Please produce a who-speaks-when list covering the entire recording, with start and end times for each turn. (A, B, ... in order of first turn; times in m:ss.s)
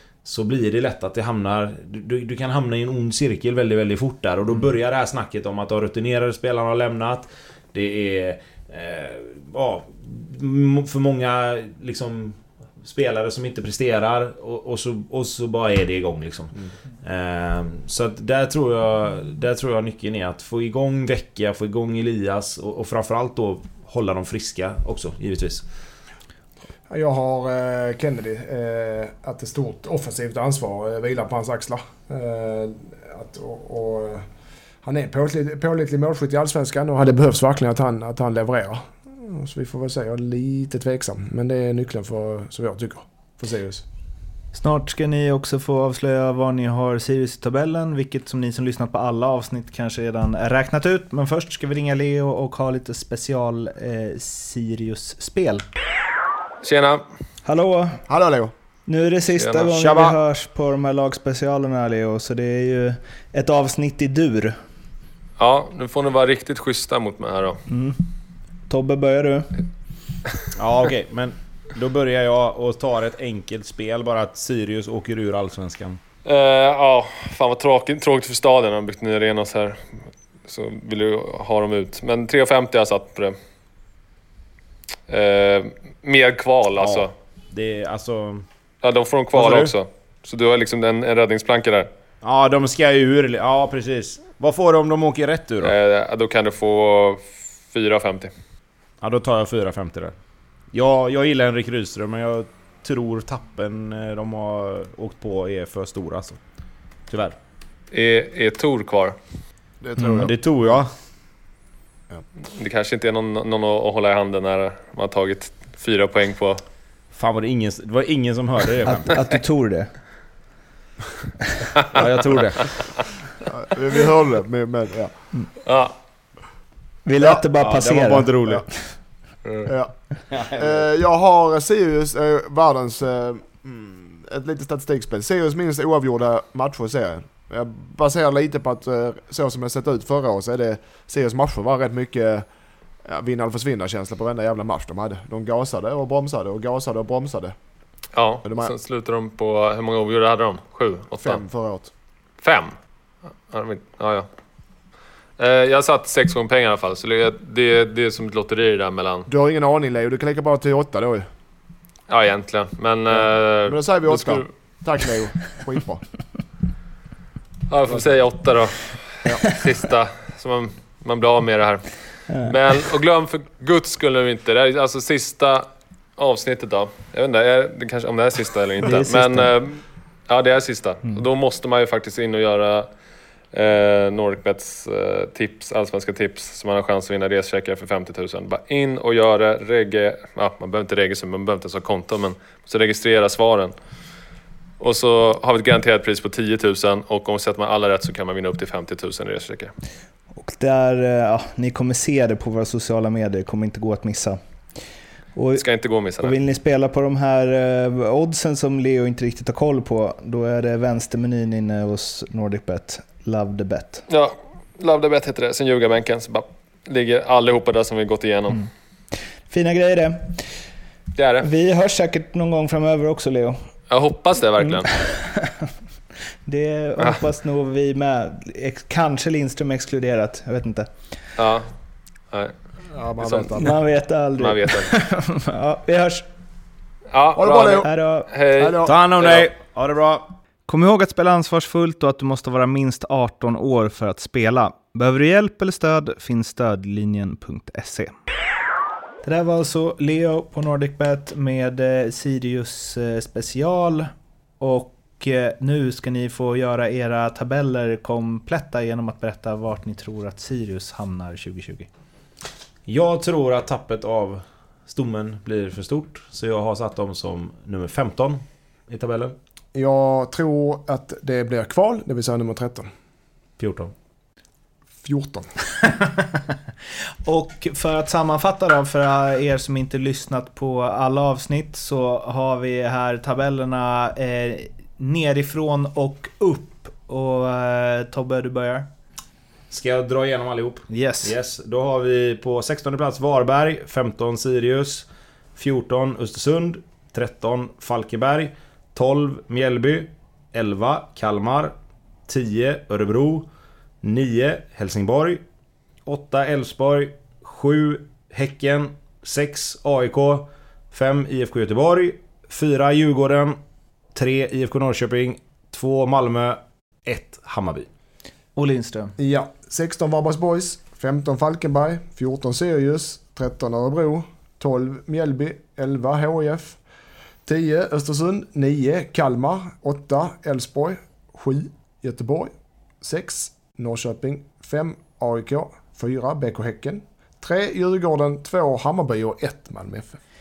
0:00.2-0:25.6 A
0:26.9-0:34.3 B
0:34.8-0:43.8 B
0:44.5-0:55.6 C
0:56.6-0:57.0 D
0:57.4-0:58.0 C
0:58.1-0:58.5 B
0:58.9-1:04.6 C
0:59.4-0:59.7 D
0:59.8-1:00.1 A
1:05.4-1:07.6 D
1:07.7-1:08.1 C
1:08.7-1:09.6 C
1:10.6-1:16.0 A
1:16.2-1:19.9 D
1:20.5-1:23.4 D
1:25.1-1:27.1 D
1:26.8-1:28.4 A
1:28.8-1:31.9 D
1:29.3-1:29.7 A
1:32.2-1:35.8 A
1:35.6-1:38.3 D
1:39.0-1:40.1 A
1:40.7-1:46.4 A
1:47.1-1:47.4 A
1:47.9-1:49.2 D
1:49.8-1:50.4 B
1:50.0-1:50.2 C
1:50.2-1:50.9 A
1:52.6-1:56.6 D
1:57.1-1:59.2 A
1:58.8-1:59.9 C
2:01.9-2:03.0 A
2:03.4-2:05.1 B
2:05.7-2:05.9 D
2:07.0-2:09.0 C
2:07.3-2:08.7 A
2:09.4-2:09.7 D
2:09.7-2:22.5 B
2:10.3-2:10.8 A
2:23.0-2:27.6 B
2:28.1-2:31.4 D
2:28.4-2:28.7 B
2:31.2-2:31.9 B
2:32.4-2:32.8 D
2:33.5-2:34.3 D
2:35.4-2:39.3 D
2:39.3-2:41.3 B
2:42.1-2:44.5 D
2:43.1-2:46.1 B
2:47.7-3:02.9 D
2:52.3-2:52.6 C
2:58.8-2:59.5 C
3:03.5-3:13.7 D
3:14.8-3:19.7 D
3:20.4-3:24.8 C
3:25.4-3:25.6 C
3:25.6-3:26.3 D
3:26.2-3:34.0 C
3:34.1-3:38.7 D
3:39.5-3:40.6 C
3:41.2-3:41.5 D
3:41.4-3:43.6 C
3:43.9-3:44.9 D
3:44.7-3:45.7 C
3:46.4-3:50.9 C
3:51.4-3:51.7 D
3:52.9-3:53.8 B
3:53.2-3:53.6 D
3:53.6-3:56.3 C
3:54.4-3:54.9 D
3:57.1-3:58.8 D
3:57.4-3:57.9 B
3:57.8-3:58.3 C
3:58.6-3:59.0 B
3:58.8-4:00.3 A
4:00.7-4:08.2 C
4:09.2-4:21.9 C
4:22.9-4:29.4 A
4:29.7-4:32.9 B
4:33.6-4:33.9 A
4:35.0-4:35.5 B
4:35.8-4:36.6 C
4:37.2-4:48.9 C
4:49.7-5:01.7 A
4:50.9-4:51.3 C
5:02.3-5:03.5 A
5:04.0-5:05.4 A
5:06.0-5:13.6 A
5:14.1-5:17.9 A
5:18.6-5:19.1 C
5:19.2-5:26.8 B
5:27.4-5:40.2 B